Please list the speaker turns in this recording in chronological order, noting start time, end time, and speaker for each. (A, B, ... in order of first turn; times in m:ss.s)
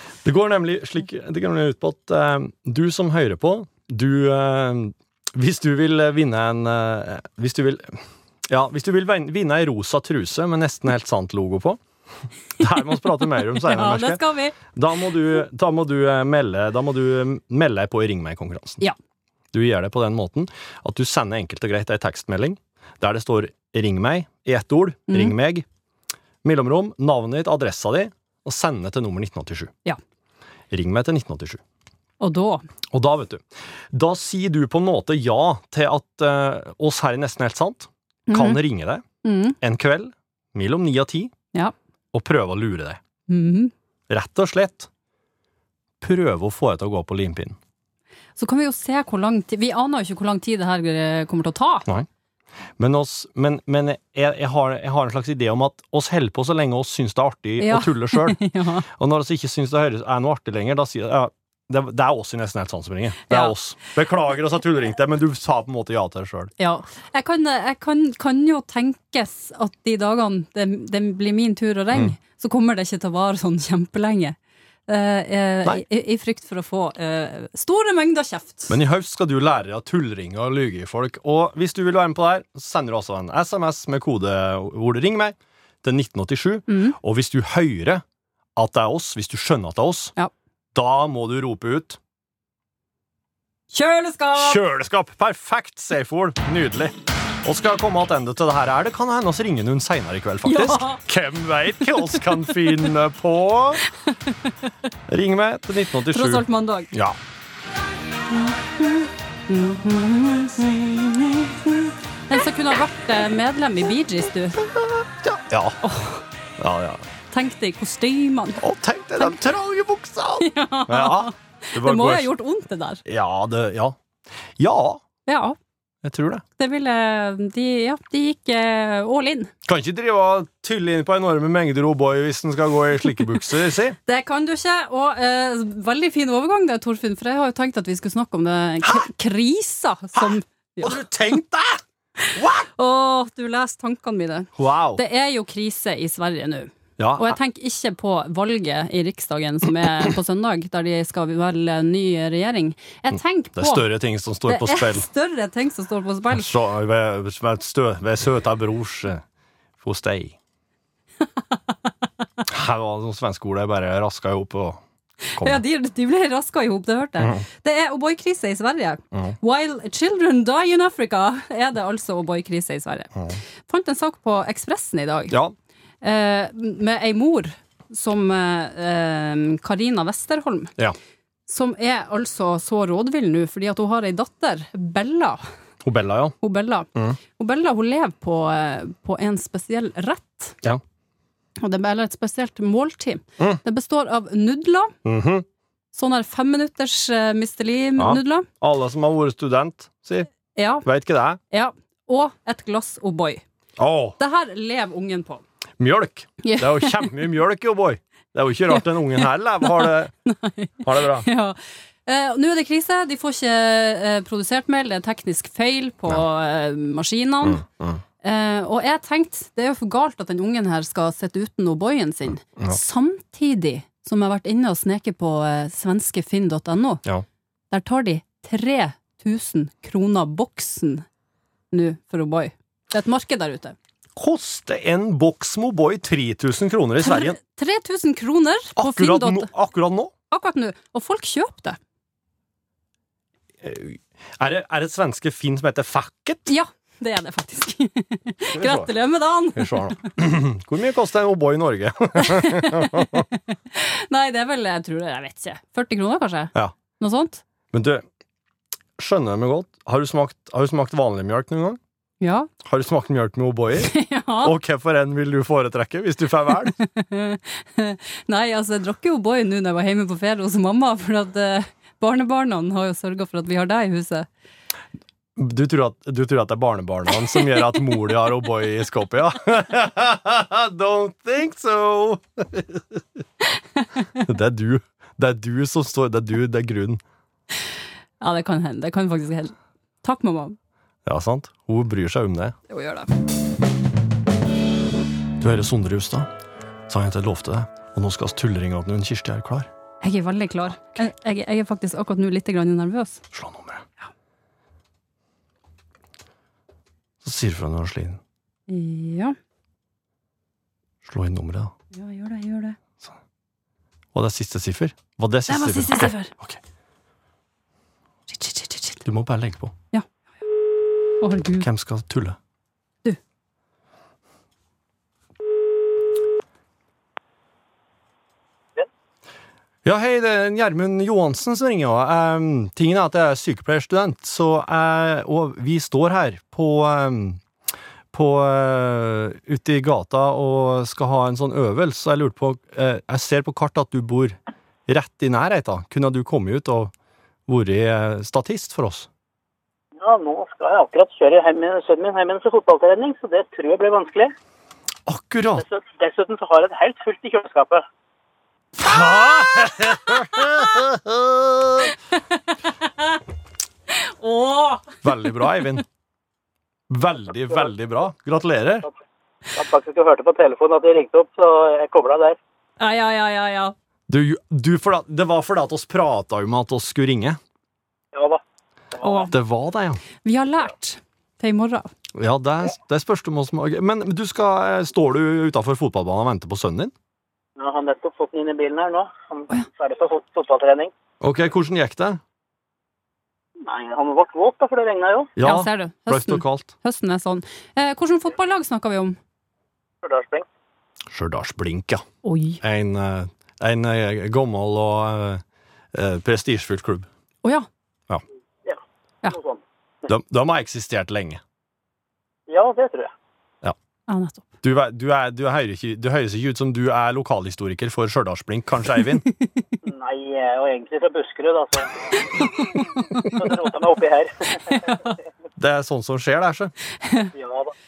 0:00.2-0:11.8 A
0:12.6-0:18.8 A
0:13.4-0:14.6 B
0:19.5-0:25.6 A
0:25.1-0:25.3 B
0:26.4-0:29.7 A
0:30.7-0:31.6 A
0:32.2-0:32.7 B
0:32.9-0:39.0 A
0:38.3-0:38.6 B
0:39.2-0:39.6 B
0:39.6-0:41.3 A
0:42.1-0:43.0 A
0:43.3-0:43.7 B
0:44.1-0:44.9 A
0:46.0-0:47.6 A
0:48.4-0:51.8 B
0:52.8-0:58.4 A
0:57.6-0:58.8 B
0:58.9-1:06.5 A
1:06.6-1:14.4 B
1:14.9-1:18.8 B
1:18.7-1:28.0 A
1:26.7-1:27.0 B
1:28.6-1:30.1 A
1:30.7-1:32.0 A
1:33.7-1:34.6 B
1:34.3-1:43.8 A
1:40.4-1:41.0 B
1:41.9-1:42.4 B
1:44.0-1:44.5 B
1:45.1-1:47.2 A
1:46.1-1:46.9 B
1:48.3-1:54.6 B
1:55.2-1:55.8 A
1:55.8-1:56.2 B
1:56.6-1:57.0 A
1:57.3-1:58.6 B
1:58.6-2:02.3 A
2:00.4-2:03.0 B
2:03.0-2:04.0 A
2:04.6-2:05.0 A
2:05.3-2:05.6 B
2:06.0-2:06.4 A
2:06.6-2:09.5 B
2:09.6-2:14.0 A
2:14.1-2:21.0 B
2:20.8-2:21.8 A
2:22.3-2:22.7 A
2:22.8-2:33.8 B
2:24.6-2:25.0 A
2:27.0-2:27.4 A
2:33.6-2:35.0 A
2:34.5-2:36.5 B
2:36.3-2:39.2 A
2:39.8-2:40.4 A
2:42.5-2:44.8 A
2:45.2-2:53.1 B
2:53.7-2:55.3 B
2:55.3-2:55.5 A
2:56.0-3:00.7 B
3:01.5-3:05.4 B
3:05.8-3:06.4 A
3:06.4-3:10.6 B
3:11.6-3:15.0 B
3:15.0-3:15.4 A
3:15.9-3:18.5 B
3:18.0-3:20.3 A
3:20.6-3:20.8 B
3:20.8-3:21.4 A
3:21.5-3:23.4 B
3:23.8-3:24.2 A
3:24.2-3:25.4 B
3:25.8-3:30.1 A
3:26.4-3:27.1 B
3:28.7-3:37.6 B
3:30.8-3:31.3 A
3:37.4-3:38.0 A
3:38.2-3:47.0 B
3:47.7-3:51.0 B
3:51.7-3:53.7 B
3:54.2-3:57.4 A
3:57.0-3:59.5 B
3:58.8-4:00.1 A
4:00.3-4:01.8 B
4:03.6-4:06.5 A
4:06.5-4:09.9 B
4:08.5-4:08.9 A
4:09.6-4:13.2 A
4:12.3-4:12.8 B
4:13.7-4:17.4 B
4:17.7-4:18.0 A
4:19.0-4:21.8 A
4:22.2-4:22.5 B
4:22.6-4:26.8 A
4:23.8-4:24.5 B
4:26.8-4:34.3 B
4:35.4-4:43.0 A
4:43.8-4:44.0 B
4:44.2-4:47.0 A
4:48.2-4:50.6 B
4:51.0-4:52.6 A
4:52.7-4:53.1 B
4:55.4-4:56.3 A
4:56.9-4:59.7 A
5:00.0-5:03.2 B
5:03.3-5:03.8 A
5:07.2-5:08.2 A
5:08.7-5:09.4 B
5:11.0-5:11.7 A
5:11.9-5:12.8 B
5:14.1-5:16.6 A
5:15.5-5:16.3 B
5:18.3-5:19.0 B
5:19.0-5:19.7 A
5:21.2-5:21.7 B
5:21.6-5:22.4 A
5:29.8-5:37.4 A
5:38.1-5:46.9 A
5:47.5-5:49.1 A
5:50.0-5:54.3 C
5:55.0-5:55.6 A
5:55.6-5:57.8 C
5:58.8-6:01.9 A
5:59.4-5:59.7 B
6:02.3-6:03.2 B
6:03.9-6:05.7 B
6:05.0-6:05.8 A
6:06.9-6:08.8 A
6:09.5-6:12.4 C
6:12.8-6:13.7 B
6:14.1-6:17.4 A
6:18.1-6:18.4 C
6:18.9-6:19.3 C
6:19.0-6:19.3 B
6:19.3-6:20.0 A
6:20.2-6:21.9 B
6:22.1-6:26.9 A
6:27.6-6:30.9 C
6:31.2-6:32.2 A
6:33.6-6:35.3 C
6:35.4-6:36.7 A
6:35.4-6:39.2 B
6:40.0-6:40.4 C
6:41.1-6:42.0 A
6:42.2-6:42.6 B
6:42.6-6:45.4 A
6:45.9-6:47.1 A
6:48.6-6:49.6 C
6:50.1-6:51.4 A
6:52.5-6:53.1 C
6:54.1-6:54.5 B
6:54.6-6:59.2 A
6:59.8-7:02.5 C
7:03.2-7:04.9 C
7:04.7-7:05.2 B
7:05.6-7:06.7 A
7:07.0-7:07.3 B
7:07.3-7:07.7 C